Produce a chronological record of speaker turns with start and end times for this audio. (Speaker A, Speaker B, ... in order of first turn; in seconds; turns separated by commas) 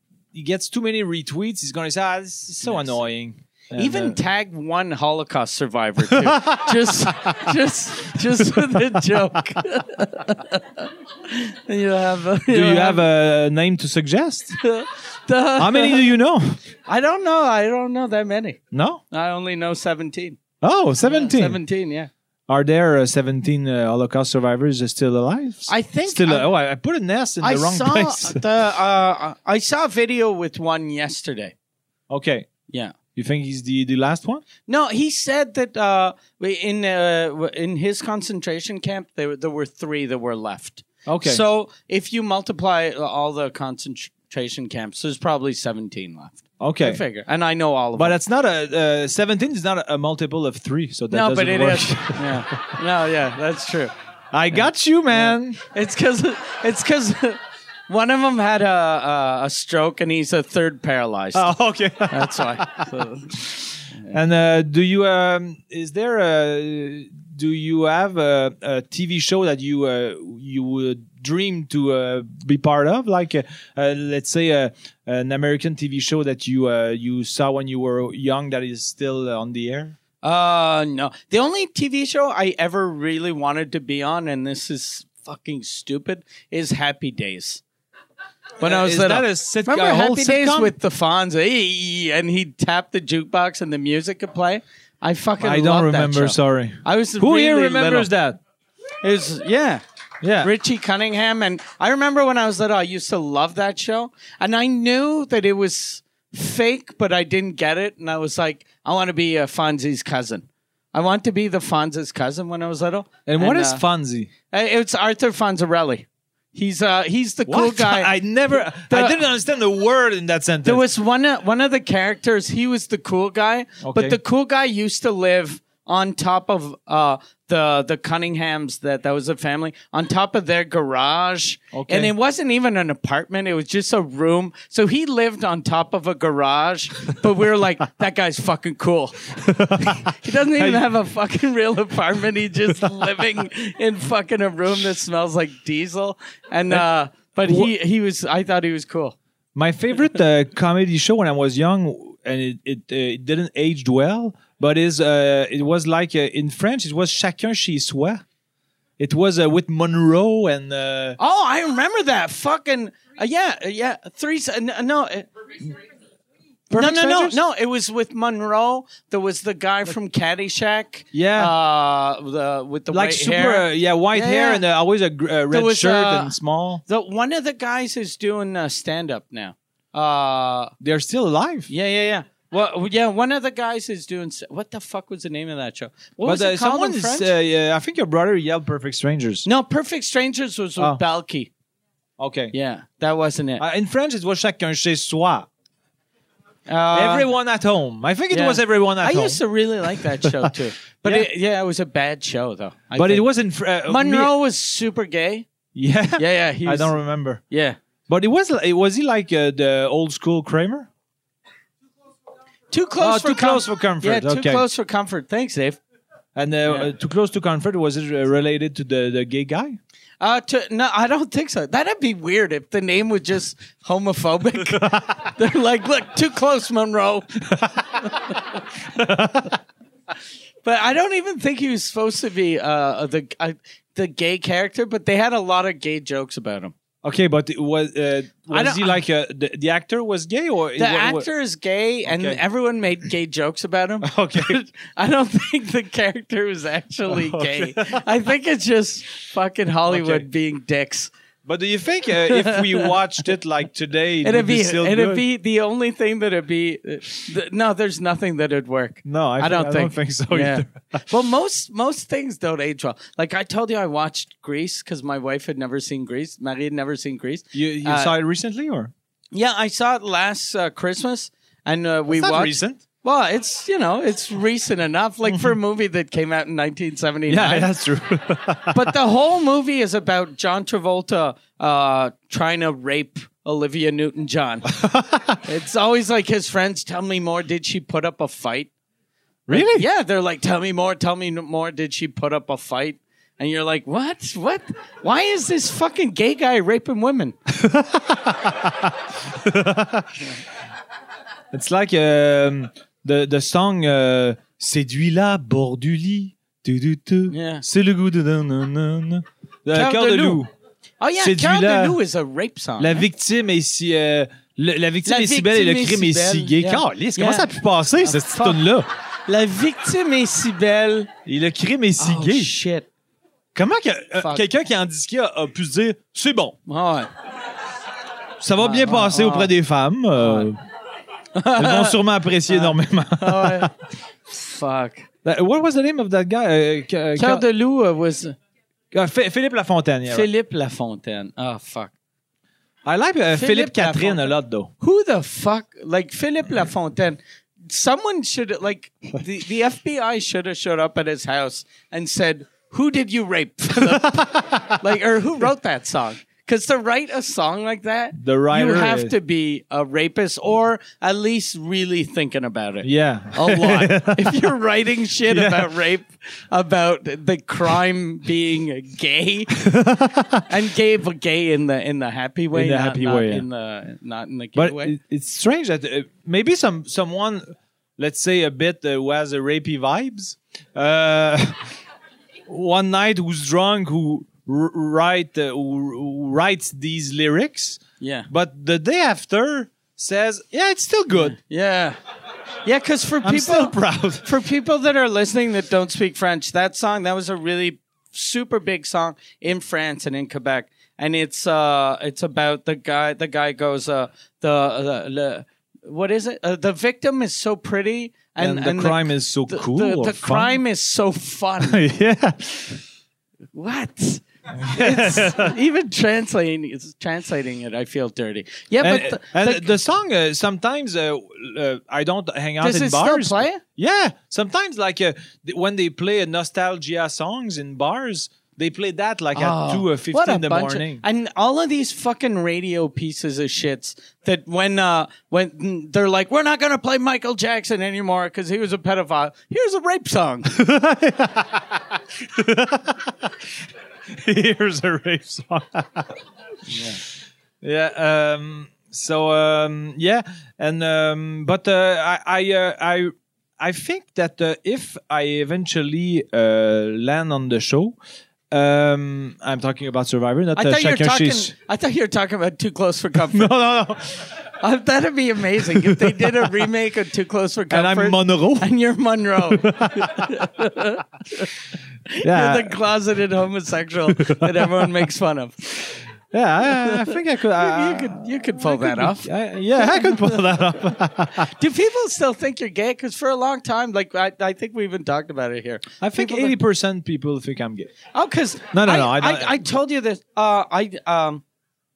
Speaker A: 0.3-4.2, Speaker B: 2.6-3.0, Speaker B: 3.7-13.0, Speaker A: 6.1-7.6, Speaker A: 8.4-9.2, Speaker A: 12.5-14.6, Speaker B: 14.6-16.1, Speaker A: 15.6-16.6, Speaker B: 16.9-18.6, Speaker A: 18.7-19.0, Speaker B: 19.1-20.4, Speaker A: 20.6-21.6, Speaker B: 21.0-22.1, Speaker A: 22.5-28.4, Speaker B: 25.7-26.5, Speaker B: 27.4-31.5, Speaker A: 32.1-32.5, Speaker B: 32.7-33.0, Speaker A: 33.1-34.4, Speaker B: 34.7-48.2, Speaker A: 41.1-41.4, Speaker A: 46.6-47.0, Speaker A: 48.0-52.8, Speaker B: 51.1-53.9, Speaker A: 54.3-55.6, Speaker B: 55.1-61.5, Speaker A: 61.3-63.5, Speaker B: 62.1-63.5, Speaker A: 64.1-80.0, Speaker B: 80.2-87.6, Speaker B: 88.6-98.1, Speaker A: 88.6-90.7, Speaker A: 95.4-98.4, Speaker B: 99.0-99.8, Speaker A: 100.2-100.5, Speaker B: 100.4-113.8, Speaker A: 113.3-114.3, Speaker B: 114.5-118.1, Speaker A: 117.5-120.8, Speaker B: 118.8-119.2, Speaker B: 120.7-149.2, Speaker A: 123.8-124.2, Speaker A: 131.7-132.1, Speaker A: 139.3-140.8, Speaker A: 142.7-143.2, Speaker A: 149.6-158.2, Speaker A: 159.0-161.2, Speaker B: 161.2-165.3, Speaker A: 166.7-167.4, Speaker B: 166.7-174.6, Speaker A: 171.1-171.5, Speaker A: 172.9-176.8, Speaker B: 175.5-176.3, Speaker B: 176.9-180.7, Speaker A: 180.8-181.7, Speaker B: 181.7-187.3, Speaker A: 186.2-189.5, Speaker B: 189.4-191.5, Speaker A: 192.2-192.5, Speaker B: 192.5-193.7, Speaker A: 193.6-195.5, Speaker B: 196.7-197.3, Speaker A: 196.9-199.4, Speaker B: 198.3-203.2, Speaker A: 200.0-200.5, Speaker A: 203.0-204.3, Speaker B: 203.9-205.5, Speaker A: 205.8-207.4, Speaker B: 206.2-207.0, Speaker B: 207.5-207.8, Speaker A: 208.1-210.9, Speaker B: 212.7-215.8, Speaker A: 213.0-214.6, Speaker A: 216.4-219.8, Speaker B: 220.2-227.5, Speaker A: 224.7-225.3, Speaker A: 227.5-229.6, Speaker B: 228.1-228.4, Speaker B: 230.6-236.7, Speaker A: 237.0-241.3, Speaker B: 238.5-239.0, Speaker B: 240.8-251.1, Speaker A: 242.1-242.4, Speaker A: 244.0-244.6, Speaker A: 247.1-248.0, Speaker A: 249.9-250.3, Speaker A: 251.4-255.2, Speaker B: 252.3-252.9, Speaker B: 254.2-268.1, Speaker A: 259.1-261.1, Speaker A: 267.5-268.9, Speaker B: 269.3-277.7, Speaker A: 272.1-272.8, Speaker A: 275.3-275.5, Speaker A: 277.3-279.0, Speaker B: 278.7-284.7, Speaker A: 284.7-285.4, Speaker B: 285.4-288.7, Speaker A: 289.5-289.9, Speaker B: 289.5-297.4, Speaker A: 297.5-300.3, Speaker A: 301.5-310.5, Speaker B: 307.3-307.6, Speaker B: 309.7-310.4, Speaker B: 311.0-313.1, Speaker A: 311.2-312.0, Speaker A: 312.8-318.9, Speaker B: 315.1-318.6, Speaker B: 319.3-321.1, Speaker A: 321.3-322.5, Speaker B: 322.0-322.9, Speaker A: 323.6-326.6, Speaker B: 324.2-324.4, Speaker B: 326.7-327.1, Speaker A: 328.4-330.6, Speaker B: 328.6-329.5, Speaker B: 330.1-330.5, Speaker B: 331.3-333.7, Speaker A: 331.6-333.7, Speaker B: 334.3-335.1, Speaker A: 335.2-337.4, Speaker B: 337.2-338.4, Speaker A: 338.9-340.3, Speaker B: 340.1-341.9, Speaker A: 342.9-344.7, Speaker B: 343.3-369.6, Speaker A: 353.8-354.8, Speaker A: 358.2-359.1, Speaker A: 362.8-364.5, Speaker A: 365.3-365.7, Speaker A: 369.6-370.5, Speaker B: 370.4-374.9, Speaker A: 372.5-373.4, Speaker A: 374.6-377.4, Speaker A: 378.0-381.7, Speaker A: 382.5-391.4, Speaker B: 388.0-388.3, Speaker B: 391.2-392.0, Speaker B: 392.6-411.8, Speaker A: 393.2-394.3, Speaker A: 408.4-410.6, Speaker A: 411.6-412.8, Speaker B: 413.5-419.8, Speaker A: 414.5-415.6, Speaker A: 418.8-431.0, Speaker B: 422.6-423.6, Speaker B: 429.4-440.5, Speaker A: 440.5-446.2, Speaker B: 446.7-447.0, Speaker A: 447.6-458.0, Speaker A: 458.5-461.5, Speaker B: 460.6-463.5, Speaker A: 463.3-464.3, Speaker B: 464.6-471.5, Speaker A: 465.6-466.5, Speaker A: 467.7-468.7, Speaker A: 469.4-470.4, Speaker B: 472.1-476.0, Speaker A: 472.2-472.8, Speaker A: 474.1-474.9, Speaker A: 476.3-481.5, Speaker B: 476.7-480.4, Speaker B: 481.3-486.6, Speaker A: 486.0-487.9, Speaker B: 488.1-491.4, Speaker A: 488.7-489.6